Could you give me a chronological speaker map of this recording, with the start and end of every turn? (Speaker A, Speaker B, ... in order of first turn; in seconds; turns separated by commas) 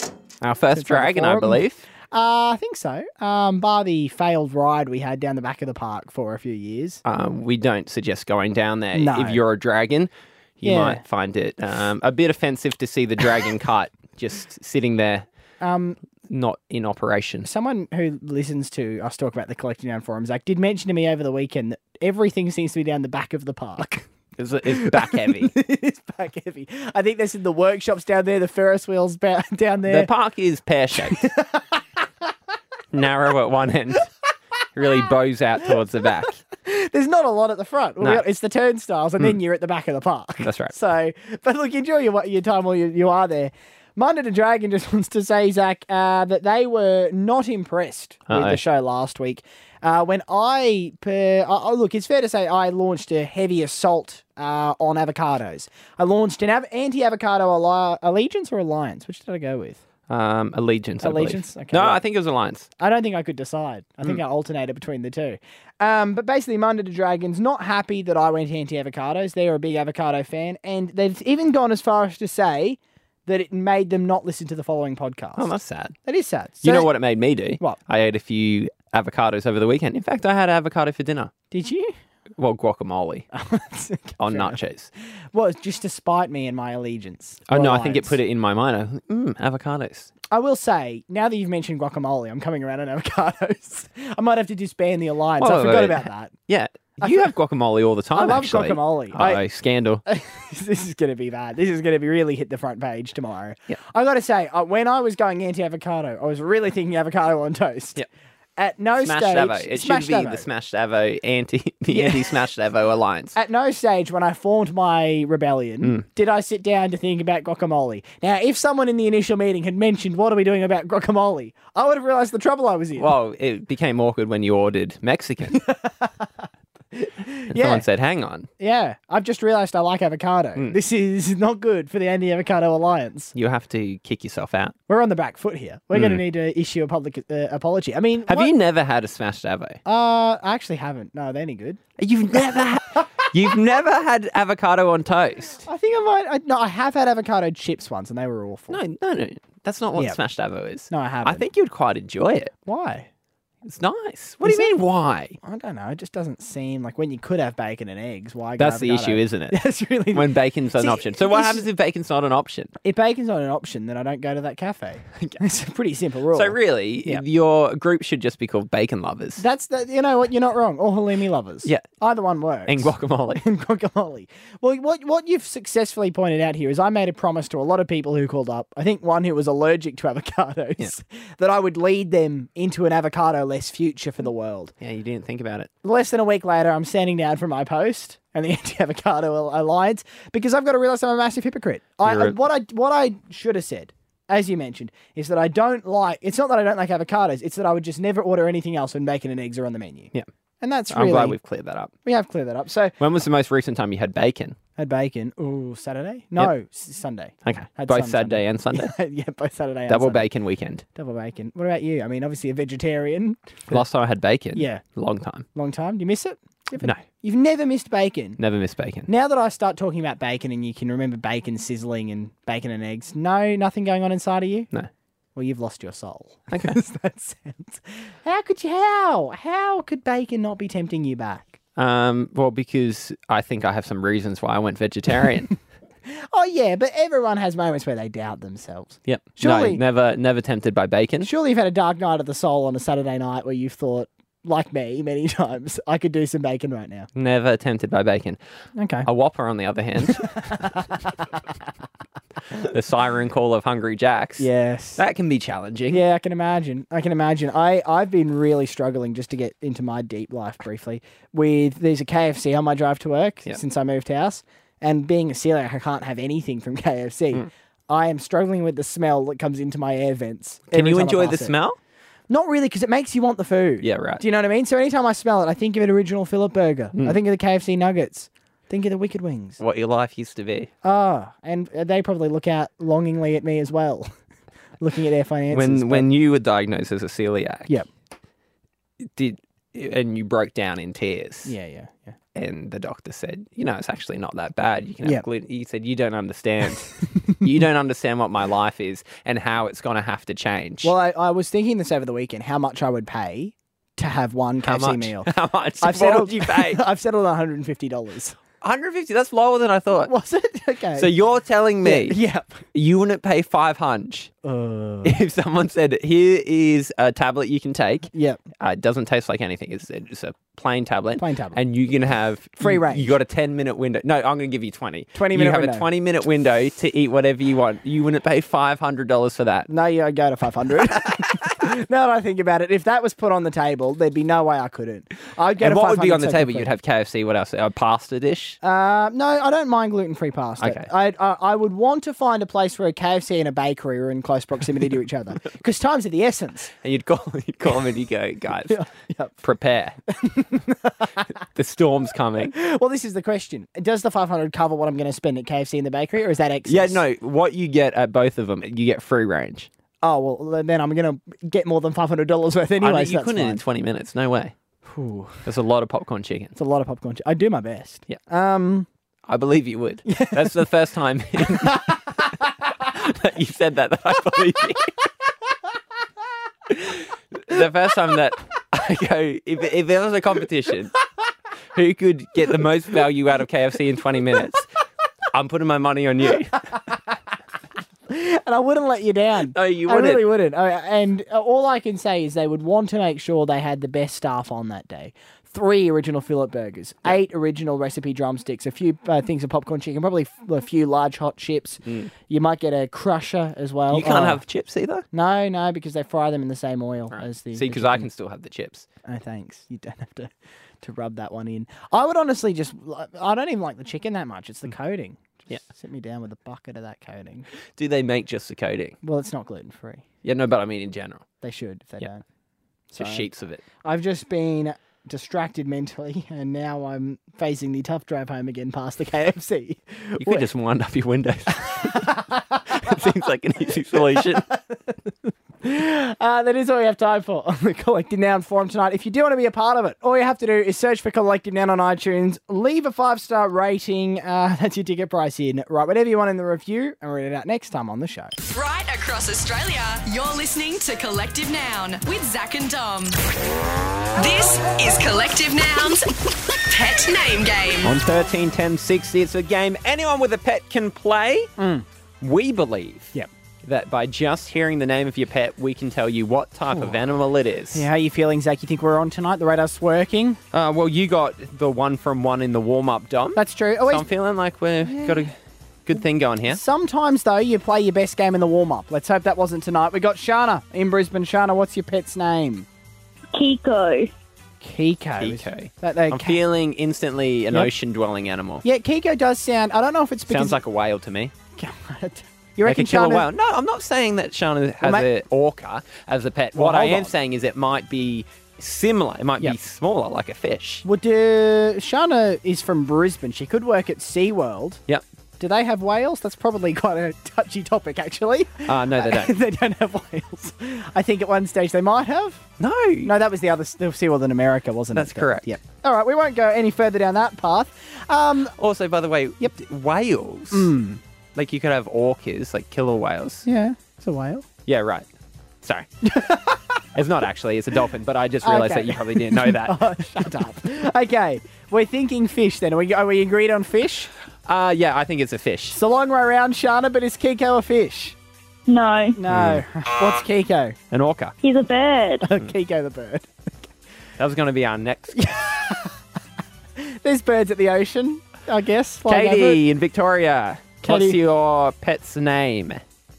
Speaker A: 0.4-1.8, Speaker B: 0.7-7.0, Speaker A: 7.0-15.2, Speaker B: 8.9-9.4, Speaker B: 10.6-11.0, Speaker B: 15.6-16.0, Speaker A: 16.3-17.5, Speaker B: 17.4-24.1, Speaker A: 24.4-25.5, Speaker B: 24.7-30.1, Speaker A: 29.9-31.3, Speaker B: 31.1-31.6, Speaker A: 32.9-34.1, Speaker A: 34.7-36.4, Speaker B: 36.6-59.8, Speaker A: 40.4-40.7, Speaker A: 48.3-48.6, Speaker A: 60.1-62.7, Speaker B: 61.0-62.0, Speaker B: 62.8-75.5, Speaker A: 75.4-76.0, Speaker B: 76.0-76.9, Speaker A: 76.6-81.3, Speaker B: 81.5-81.9, Speaker A: 82.4-83.3, Speaker B: 83.3-84.6, Speaker A: 84.2-84.9, Speaker B: 85.3-88.1, Speaker A: 87.5-90.1, Speaker B: 90.3-96.3, Speaker A: 95.4-100.0, Speaker B: 97.0-97.3, Speaker B: 98.1-99.4, Speaker B: 100.0-108.0, Speaker B: 108.6-110.5, Speaker A: 109.0-113.3, Speaker B: 111.9-112.3, Speaker B: 113.3-123.1, Speaker A: 123.0-125.6, Speaker B: 125.5-126.3, Speaker B: 127.0-127.8, Speaker A: 127.5-128.5, Speaker B: 128.6-133.3, Speaker A: 133.3-134.7, Speaker B: 134.9-138.5, Speaker A: 135.9-136.2, Speaker A: 138.3-139.8, Speaker B: 139.8-141.8, Speaker A: 142.0-145.6, Speaker B: 145.7-148.8, Speaker A: 148.7-152.5, Speaker B: 150.9-151.4, Speaker B: 152.7-153.1, Speaker A: 153.6-155.4, Speaker B: 154.4-154.7, Speaker B: 155.4-161.7, Speaker A: 158.6-162.7, Speaker B: 162.8-167.2, Speaker A: 166.3-169.4, Speaker B: 169.4-184.7, Speaker A: 172.7-173.4, Speaker A: 184.8-185.7, Speaker B: 185.8-201.4, Speaker A: 192.0-192.4, Speaker A: 200.9-201.9, Speaker B: 202.0-202.9, Speaker A: 203.0-204.6, Speaker B: 204.8-210.3, Speaker A: 207.4-208.9, Speaker A: 209.9-210.8, Speaker B: 210.9-213.8, Speaker A: 213.7-215.4, Speaker B: 214.5-214.8, Speaker B: 215.5-218.4, Speaker A: 218.4-219.1, Speaker B: 219.1-224.7, Speaker B: 225.3-231.6, Speaker A: 226.5-226.7, Speaker A: 231.8-235.5, Speaker B: 236.1-239.8, Speaker A: 239.1-241.3, Speaker B: 241.2-247.1, Speaker A: 247.1-248.4, Speaker B: 248.8-249.1, Speaker A: 249.0-250.4, Speaker B: 250.5-250.9, Speaker A: 252.6-256.0, Speaker B: 254.4-255.0, Speaker B: 255.9-271.5, Speaker A: 270.7-271.8, Speaker B: 272.3-279.6, Speaker A: 273.8-274.2, Speaker A: 279.6-280.7, Speaker B: 280.8-284.1, Speaker B: 284.8-286.1, Speaker A: 285.5-287.7, Speaker A: 289.0-291.5, Speaker B: 291.4-292.1, Speaker A: 292.3-300.9, Speaker B: 300.8-305.3, Speaker A: 304.6-306.8, Speaker B: 305.8-308.4, Speaker A: 308.6-310.1, Speaker B: 310.1-311.1, Speaker A: 310.9-312.2, Speaker B: 311.8-312.6, Speaker A: 312.7-314.3, Speaker B: 314.4-315.2, Speaker A: 315.0-329.7, Speaker B: 318.1-318.4, Speaker B: 321.2-321.6, Speaker B: 322.6-323.1, Speaker B: 325.1-325.9, Speaker B: 329.7-336.7, Speaker A: 335.6-338.6, Speaker B: 338.6-346.7, Speaker A: 340.6-340.9, Speaker A: 346.8-348.8, Speaker B: 348.7-349.4, Speaker A: 349.4-350.0, Speaker B: 350.2-351.2, Speaker A: 351.5-352.5, Speaker B: 352.5-357.0, Speaker A: 356.6-359.7, Speaker B: 360.0-363.6, Speaker A: 362.8-364.5, Speaker B: 364.9-365.4, Speaker A: 365.4-366.5, Speaker B: 366.6-368.9, Speaker A: 369.2-372.0, Speaker B: 370.1-370.6, Speaker A: 372.8-374.9, Speaker A: 376.7-380.9, Speaker A: 381.7-384.7, Speaker A: 385.3-386.6, Speaker B: 388.1-404.4, Speaker A: 389.5-390.2, Speaker A: 403.9-405.0, Speaker B: 405.1-408.1, Speaker A: 407.1-408.9, Speaker B: 409.0-410.3, Speaker B: 410.8-417.5, Speaker A: 417.8-418.9, Speaker B: 419.0-420.0, Speaker A: 420.2-421.2, Speaker B: 421.4-422.2, Speaker B: 422.9-423.3, Speaker A: 423.0-423.6, Speaker B: 423.8-430.4, Speaker A: 430.2-432.2, Speaker B: 431.8-432.9, Speaker A: 432.7-434.5, Speaker B: 433.9-434.8, Speaker B: 435.6-448.3, Speaker C: 448.5-453.2, Speaker C: 454.1-456.1, Speaker C: 456.6-457.9, Speaker A: 457.8-461.5, Speaker B: 461.6-461.8, Speaker A: 462.2-463.1, Speaker A: 463.6-467.9, Speaker B: 466.7-466.9, Speaker B: 467.7-470.4, Speaker A: 470.5-475.3, Speaker B: 473.4-474.1, Speaker B: 474.9-475.2, Speaker A: 475.8-476.6, Speaker B: 476.5-482.7, Speaker D: 483.3-484.1, Speaker B: 484.6-486.4, Speaker A: 485.2-488.6, Speaker B: 488.6-490.6, Speaker A: 490.3-491.3, Speaker B: 491.6-493.3, Speaker A: 492.6-500.8, Speaker B: 494.8-495.1, Speaker B: 496.5-497.1, Speaker B: 500.8-504.8, Speaker B: 505.4-512.5, Speaker A: 508.6-509.3, Speaker A: 512.6-513.1, Speaker B: 513.0-518.5, Speaker A: 514.9-515.5, Speaker A: 518.6-520.7, Speaker B: 520.5-521.0, Speaker A: 521.3-523.4, Speaker B: 523.4-524.5, Speaker A: 524.6-525.1, Speaker A: 525.6-525.9, Speaker B: 526.0-526.8, Speaker A: 526.9-530.2, Speaker B: 528.4-534.1, Speaker A: 534.5-535.8, Speaker B: 535.7-538.1, Speaker D: 538.7-539.2, Speaker B: 539.1-540.8, Speaker A: 539.3-539.6, Speaker A: 540.9-541.3, Speaker D: 541.4-542.2, Speaker B: 542.2-543.3, Speaker A: 544.2-545.3, Speaker B: 545.1-545.9, Speaker B: 546.8-549.6, Speaker A: 549.1-552.8, Speaker B: 550.8-551.2